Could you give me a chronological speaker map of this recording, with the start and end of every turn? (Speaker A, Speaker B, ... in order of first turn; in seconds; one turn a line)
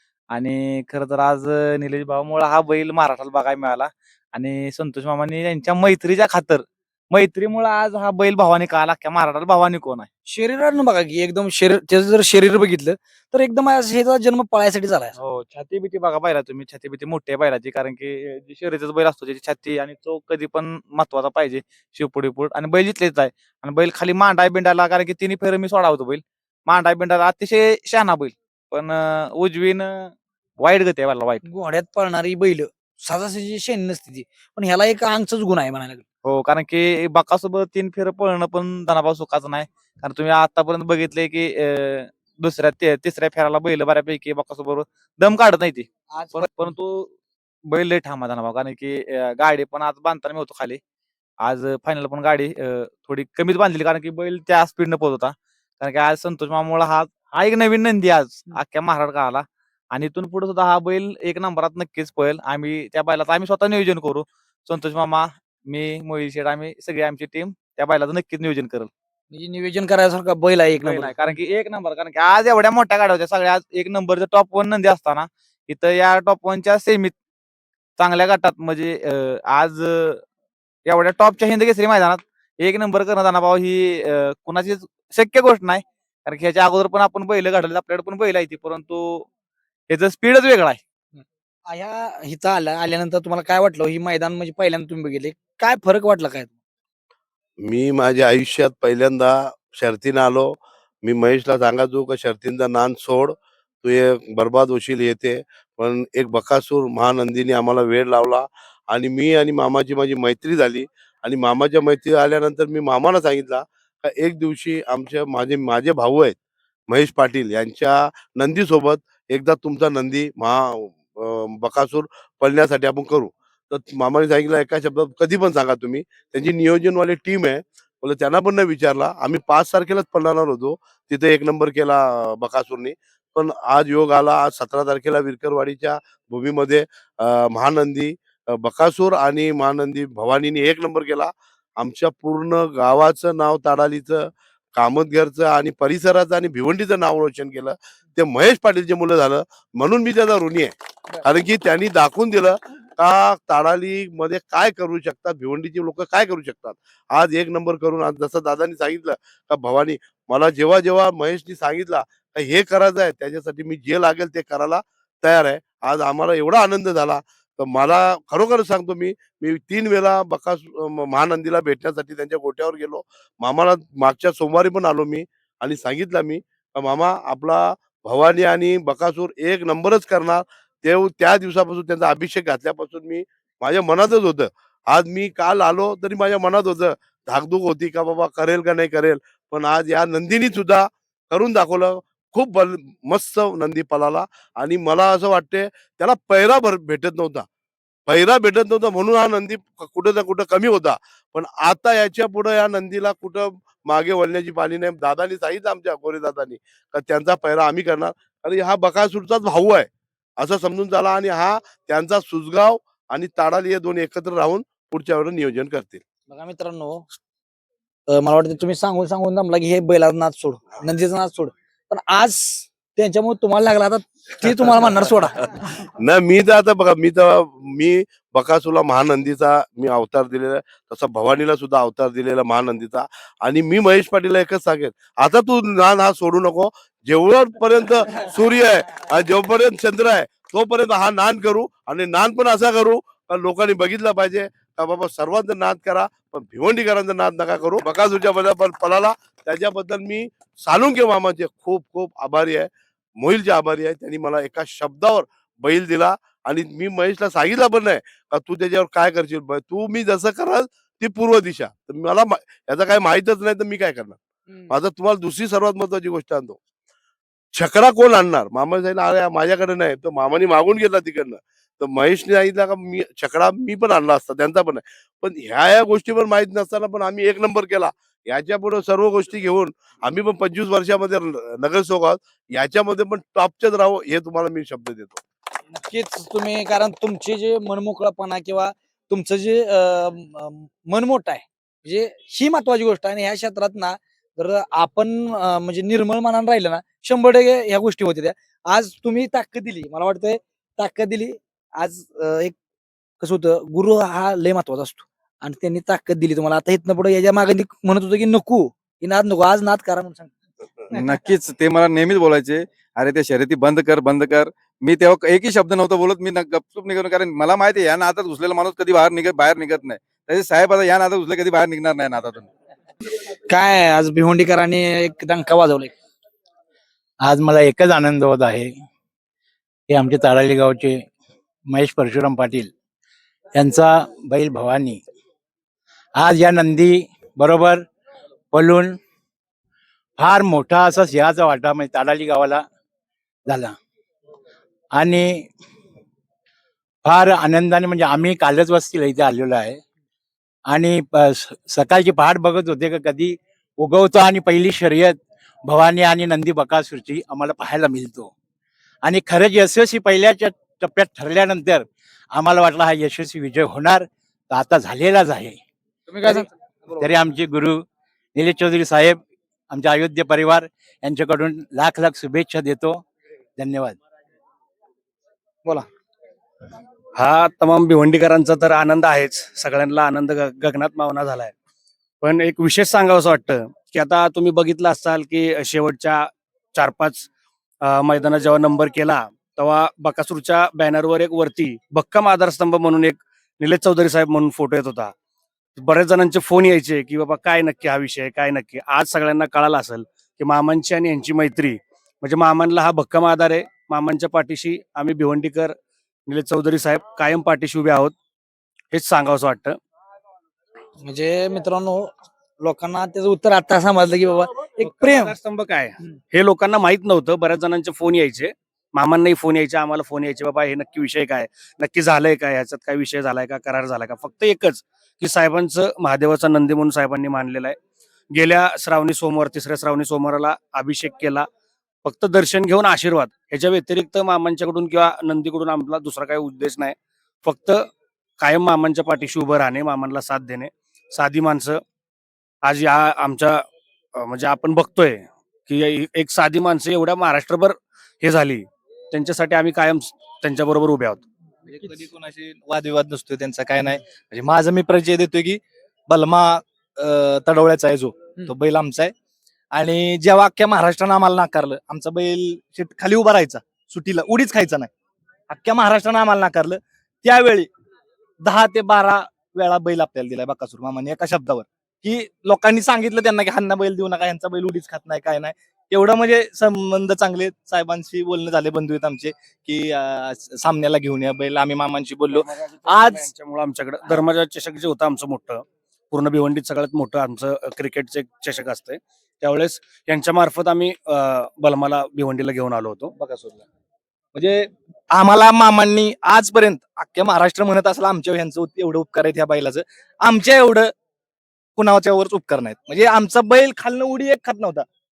Speaker A: 0.3-10.1
Speaker B: 10.3-15.1
Speaker A: 15.2-31.4
Speaker B: 31.4-36.0
Speaker A: 36.2-47.1
Speaker B: 46.1-46.7
Speaker A: 47.7-50.8
Speaker A: 51.4-68.9
Speaker B: 69.3-71.2
Speaker A: 70.8-77.1
Speaker A: 78.0-80.2
Speaker A: 80.9-89.3
Speaker A: 89.9-90.8
Speaker B: 91.7-96.5
Speaker C: 97.6-116.4
Speaker C: 116.9-197.5
Speaker C: 198.1-216.0
Speaker B: 216.3-217.1
Speaker B: 218.1-225.4
Speaker C: 226.0-264.2
Speaker C: 264.7-266.6
Speaker C: 267.5-285.2
Speaker B: 285.8-302.6
Speaker B: 303.2-310.3
Speaker D: 310.9-322.5
Speaker B: 323.5-325.9
Speaker E: 327.2-328.8
Speaker E: 329.9-331.1
Speaker E: 331.7-332.7
Speaker E: 333.5-335.0
Speaker E: 336.1-337.9
Speaker E: 338.5-339.0
Speaker E: 340.2-342.7
Speaker E: 343.5-343.8
Speaker E: 344.9-345.5
Speaker E: 347.0-349.8
Speaker E: 350.7-358.3
Speaker E: 359.0-365.6
Speaker B: 366.1-366.4
Speaker E: 366.2-373.1
Speaker E: 373.6-374.0
Speaker F: 377.1-381.5
Speaker F: 382.2-387.3
Speaker F: 387.8-395.1
Speaker F: 395.8-405.8
Speaker F: 406.3-408.1
Speaker F: 408.9-409.8
Speaker B: 411.0-415.3
Speaker F: 414.8-427.8
Speaker F: 428.3-431.5
Speaker F: 432.1-437.9
Speaker F: 438.4-441.8
Speaker F: 442.6-443.6
Speaker F: 444.2-451.2
Speaker G: 451.7-459.1
Speaker G: 459.7-464.9
Speaker G: 465.5-467.7
Speaker G: 468.4-483.3
Speaker F: 482.3-493.1
Speaker G: 493.2-493.6
Speaker G: 494.3-500.9
Speaker G: 501.8-504.9